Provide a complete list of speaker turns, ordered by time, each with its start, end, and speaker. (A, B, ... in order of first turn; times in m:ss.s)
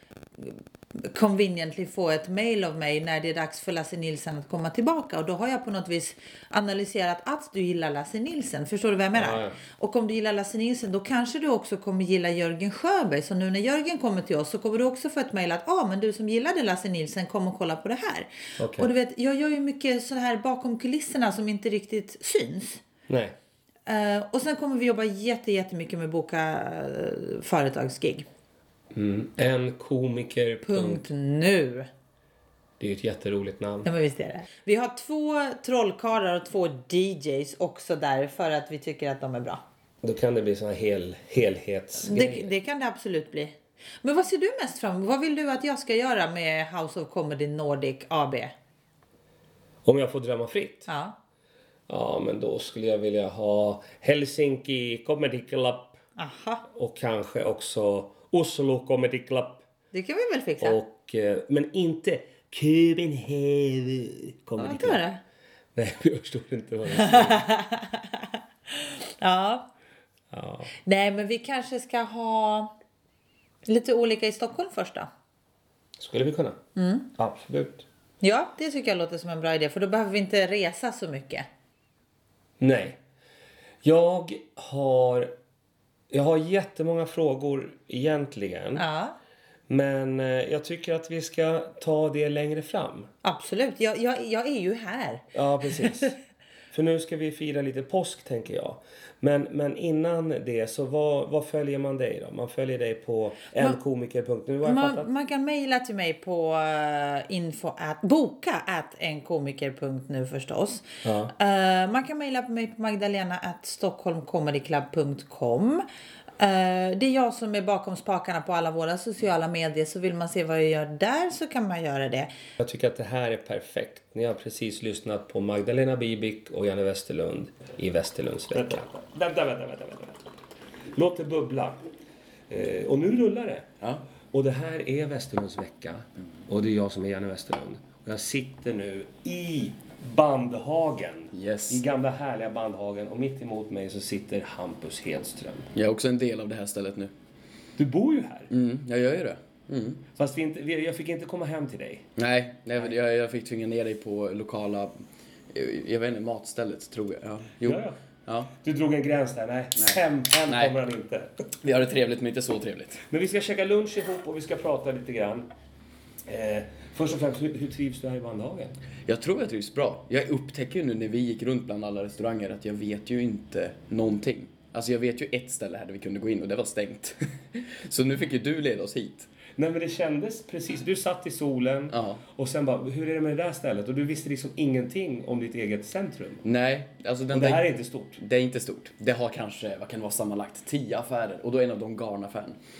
0:00.4-0:22.8 A
0:09.1-0:09.6 B
0:18.6-0:18.9 B
0:23.1-0:23.3 B
0:23.9-0:28.3 A
0:28.9-0:31.1 B
0:30.7-0:31.9 A
0:32.8-0:33.9 B
0:33.8-0:39.6 A
0:40.0-0:42.5 B
0:42.1-0:48.5 A
0:49.8-0:50.9 B
0:50.9-0:51.2 A
0:51.9-0:56.0 B
0:56.2-0:56.6 A
0:56.7-0:59.6 B
0:59.9-1:00.8 A
1:00.6-1:05.0 B
1:04.6-1:05.2 A
1:05.8-1:07.5 B
1:07.0-1:09.7 A
1:10.3-1:10.7 B
1:10.8-1:12.7 A
1:13.7-1:15.1 A
1:16.0-1:16.6 B
1:16.8-1:17.1 A
1:17.2-1:17.8 B
1:18.2-1:21.5 A
1:22.6-1:23.0 B
1:23.8-1:25.3 B
1:26.1-1:28.8 B
1:28.8-1:29.2 A
1:29.7-1:33.1 B
1:33.2-1:36.2 A
1:35.3-1:36.1 B
1:36.7-1:45.1 B
1:44.6-1:55.8 A
1:51.0-1:51.3 B
1:56.4-2:02.3 A
2:02.6-2:10.2 B
2:10.9-2:11.8 B
2:12.5-2:13.7 B
2:14.3-2:25.7 B
2:21.3-2:21.8 C
2:25.7-2:27.1 C
2:27.8-2:28.5 B
2:28.5-2:30.0 C
2:30.2-2:32.1 B
2:32.2-2:34.9 C
2:35.5-2:38.5 C
2:37.6-2:38.0 B
2:38.6-2:41.3 B
2:39.8-2:40.7 C
2:41.6-2:43.0 C
2:43.1-2:45.5 B
2:46.3-2:48.8 B
2:49.1-2:59.3 C
2:59.6-3:06.4 B
3:01.9-3:02.2 C
3:06.4-3:12.6 C
3:07.3-3:08.2 B